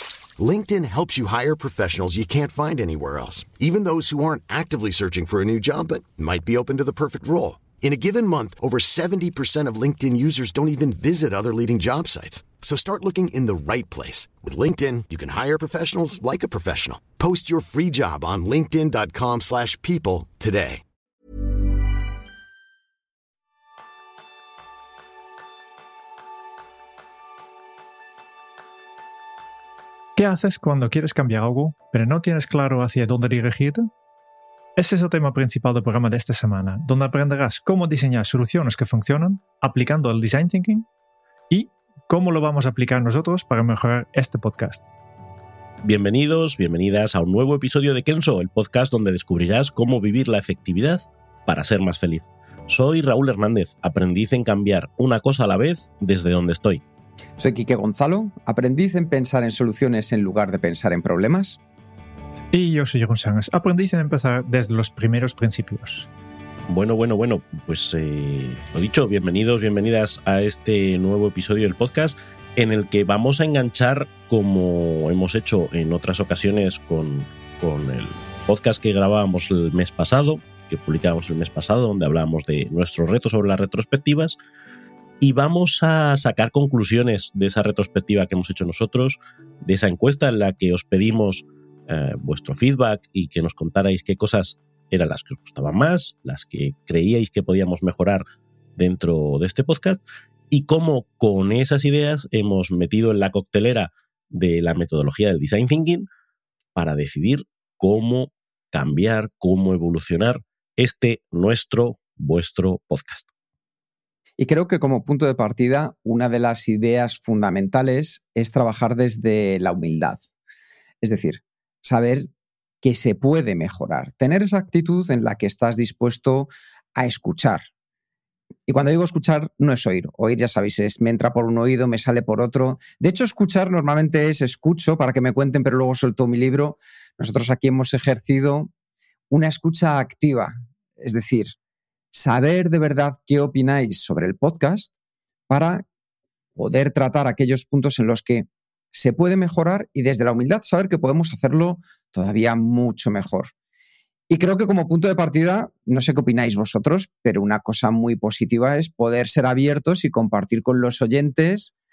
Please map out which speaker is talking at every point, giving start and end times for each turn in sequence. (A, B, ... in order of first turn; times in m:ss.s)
0:00.4-0:20.8 A
0:30.2-0:33.9 B
0:34.8-0:40.9 B
0:41.5-0:44.8 B
0:45.8-0:56.8 C
0:57.4-1:01.6 D
1:02.5-1:06.1 B
1:06.7-1:24.4 C
1:25.2-1:38.2 C
1:38.8-1:46.1 C
1:46.8-1:53.3 C
1:54.4-2:00.2 D
2:01.0-2:02.3 D
2:02.8-2:07.7 D
2:08.7-2:18.7 D
2:19.3-2:21.6 D
2:22.1-2:24.9 D
2:25.5-2:25.8 D
2:26.6-2:33.5 D
2:34.3-2:41.7 D